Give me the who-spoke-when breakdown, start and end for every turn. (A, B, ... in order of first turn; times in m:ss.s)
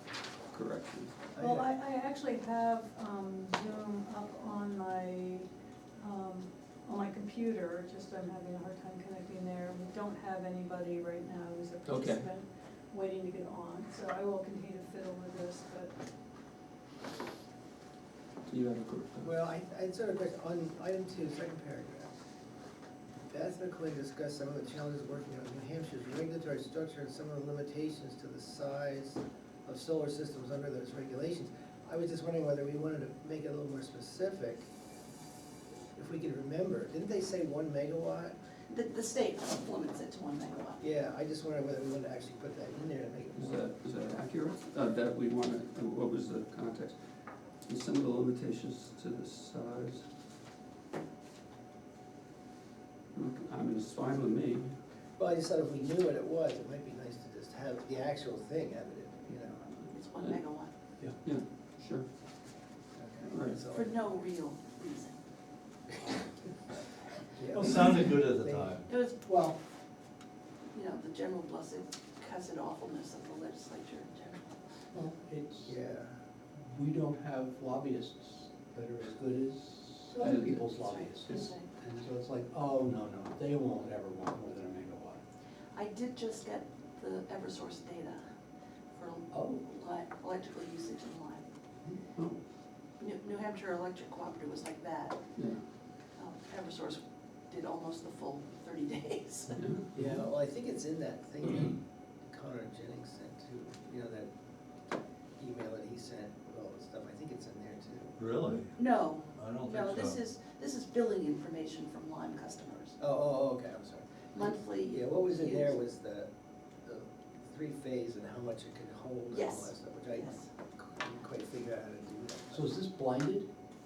0:00.5-0:01.2 A
0:01.3-0:01.7 B
0:01.4-0:15.9 C
0:11.9-0:12.3 A
0:18.5-0:19.3 A
0:19.2-0:22.1 B
0:23.3-0:34.7 B
0:36.0-0:38.4 B
0:38.7-0:40.8 D
0:40.8-0:43.6 B
0:43.4-0:47.0 A
0:47.7-0:50.0 A
0:53.2-0:54.8 A
0:55.2-0:59.7 B
0:59.9-1:00.7 D
1:01.2-1:02.1 A
1:03.0-1:04.0 B
1:03.3-1:03.6 A
1:03.7-1:05.2 D
1:07.4-1:08.8 B
1:07.5-1:08.9 E
1:08.9-1:09.2 D
1:09.2-1:09.6 F
1:10.7-1:14.6 D
1:14.9-1:15.8 F
1:15.6-1:16.2 B
1:16.7-1:25.2 F
1:20.1-1:20.7 A
1:20.8-1:21.7 D
1:21.2-1:21.5 A
1:25.7-1:28.2 D
1:28.9-1:31.4 D
1:29.3-1:29.6 F
1:33.0-1:35.2 D
1:35.4-1:35.6 A
1:36.2-1:39.6 D
1:39.6-1:39.8 A
1:40.0-1:44.3 B
1:45.4-1:48.2 B
1:48.2-1:50.2 E
1:48.8-1:53.0 D
1:53.0-1:56.3 B
1:54.3-1:55.8 D
1:56.8-2:02.7 B
1:59.3-2:00.4 D
2:02.5-2:03.5 F